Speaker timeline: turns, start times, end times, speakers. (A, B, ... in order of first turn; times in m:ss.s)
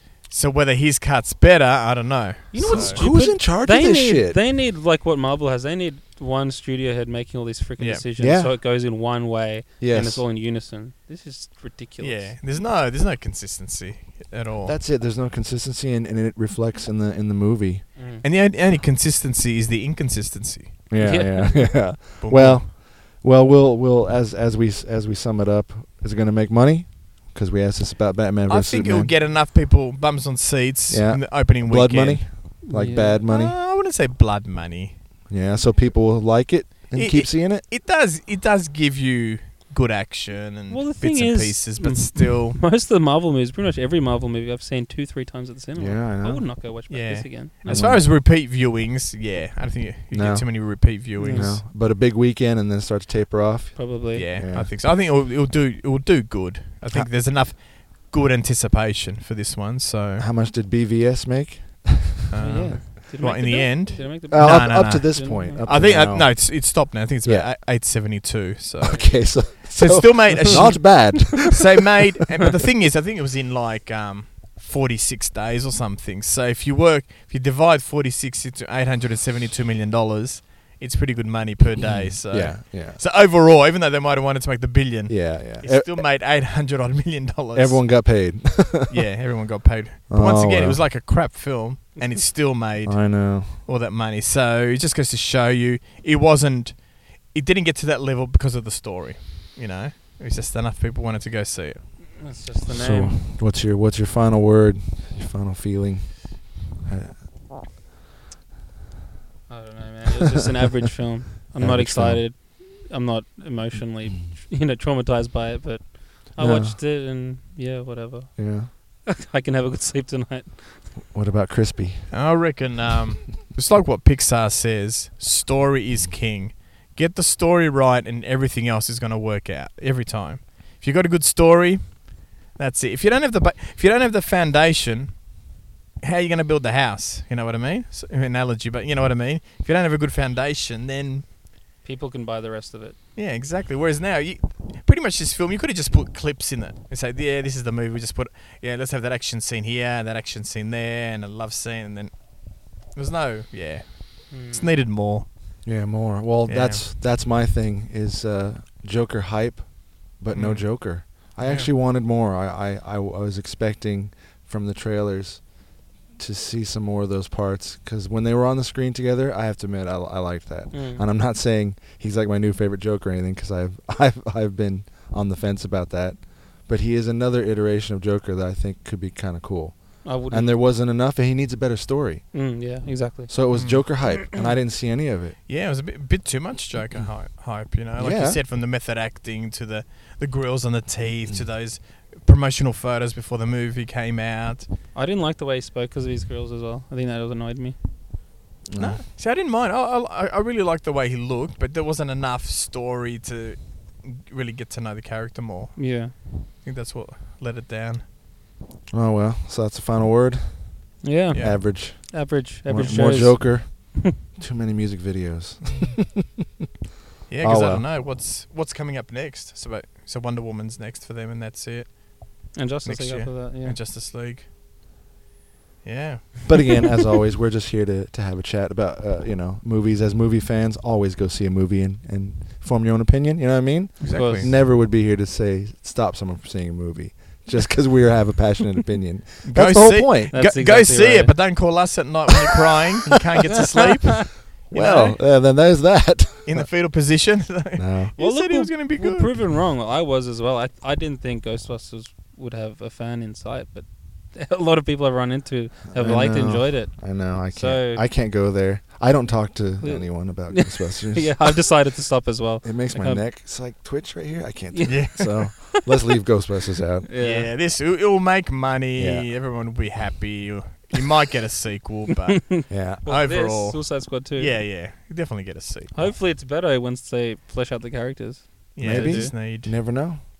0:00.3-0:03.0 A
0:02.5-0:12.4 B
0:02.6-0:04.4 C
0:07.8-0:08.0 A
0:08.2-0:08.6 C
0:09.8-0:10.3 C
0:12.0-0:14.8 A
0:14.6-0:17.9 C
0:18.0-0:18.2 B
0:18.2-0:20.8 A
0:20.9-0:29.1 C
0:21.0-0:21.9 B
0:22.2-0:22.7 A
0:28.5-0:32.6 A
0:30.9-0:33.6 C
0:32.7-0:33.2 B
0:33.3-0:35.0 A
0:35.3-0:37.7 C
0:36.9-0:42.6 A
0:40.7-0:48.0 B
0:45.8-0:46.6 C
0:46.9-0:51.6 A
0:47.7-0:48.1 C
0:50.1-0:54.7 C
0:51.2-0:51.6 B
0:53.8-0:54.3 B
0:54.1-1:00.3 A
1:00.2-1:02.3 C
1:02.3-1:41.9 A
1:02.4-1:05.7 B
1:04.3-1:07.5 C
1:08.8-1:11.7 C
1:08.9-1:09.4 B
1:10.3-1:10.8 B
1:21.8-1:23.0 C
1:25.1-1:26.0 C
1:27.5-1:29.0 C
1:30.1-1:30.8 C
1:32.0-1:32.2 B
1:32.8-1:33.6 C
1:42.2-1:43.2 B
1:42.7-1:47.2 C
1:49.5-2:00.9 B
1:51.5-1:52.3 C
1:53.8-1:54.3 C
1:56.4-1:56.8 C
1:58.4-1:58.7 C
2:01.1-2:02.1 C
2:02.1-2:15.4 A
2:16.0-2:21.3 A
2:21.8-2:23.0 B
2:23.2-2:35.3 A
2:34.3-2:34.7 B
2:35.6-2:45.6 C
2:36.5-2:36.8 A
2:40.3-2:41.7 A
2:46.2-3:02.5 C
2:50.7-2:51.0 B
3:00.0-3:00.6 B
3:02.3-3:04.2 B
3:03.3-3:05.4 C
3:03.5-3:04.1 A
3:05.5-3:14.7 A
3:08.0-3:08.4 C
3:14.9-3:17.8 B
3:18.7-3:19.0 C
3:18.8-3:28.0 A
3:25.8-3:26.2 B
3:28.9-3:36.3 C
3:31.0-3:34.2 B
3:31.3-3:31.6 A
3:32.8-3:33.3 A
3:35.6-3:36.0 A
3:37.3-3:44.5 A
3:37.4-3:37.9 C
3:42.5-3:43.8 B
3:45.8-3:46.9 A
3:46.5-4:00.4 C
3:54.0-3:54.6 A
3:54.0-3:54.5 B
3:59.4-4:05.2 A
4:00.3-4:01.9 B
4:04.7-4:06.7 C
4:06.4-4:09.4 A
4:07.8-4:08.1 C
4:08.2-4:18.0 B
4:15.9-4:21.8 C
4:19.8-4:23.2 B
4:22.6-4:27.1 C
4:24.7-4:25.8 B
4:24.9-4:25.5 A
4:27.1-4:27.5 B
4:27.2-4:36.1 A
4:29.0-4:29.3 C
4:32.4-4:34.6 B
4:32.7-4:33.0 C
4:35.9-4:39.3 B
4:38.8-4:39.7 A
4:38.8-4:40.2 C